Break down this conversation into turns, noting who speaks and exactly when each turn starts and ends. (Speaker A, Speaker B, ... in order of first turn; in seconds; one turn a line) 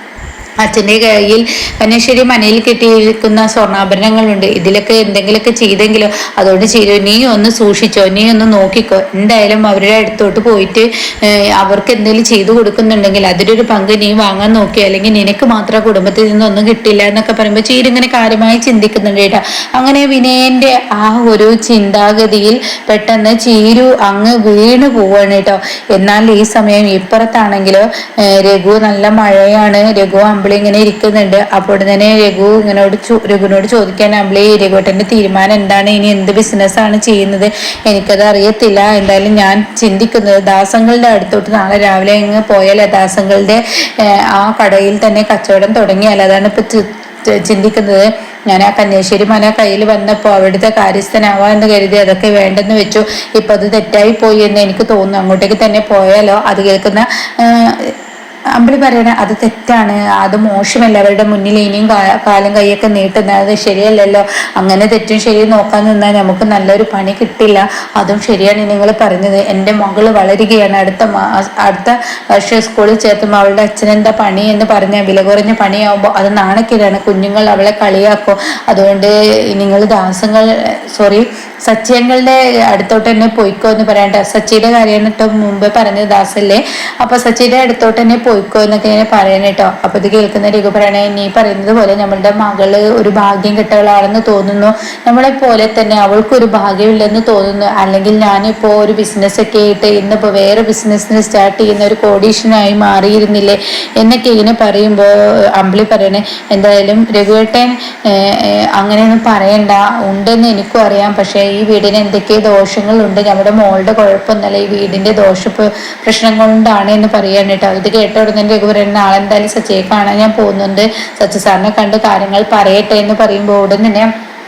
Speaker A: 0.6-46.8
Speaker A: 47.4-57.9
Speaker A: 58.5-124.1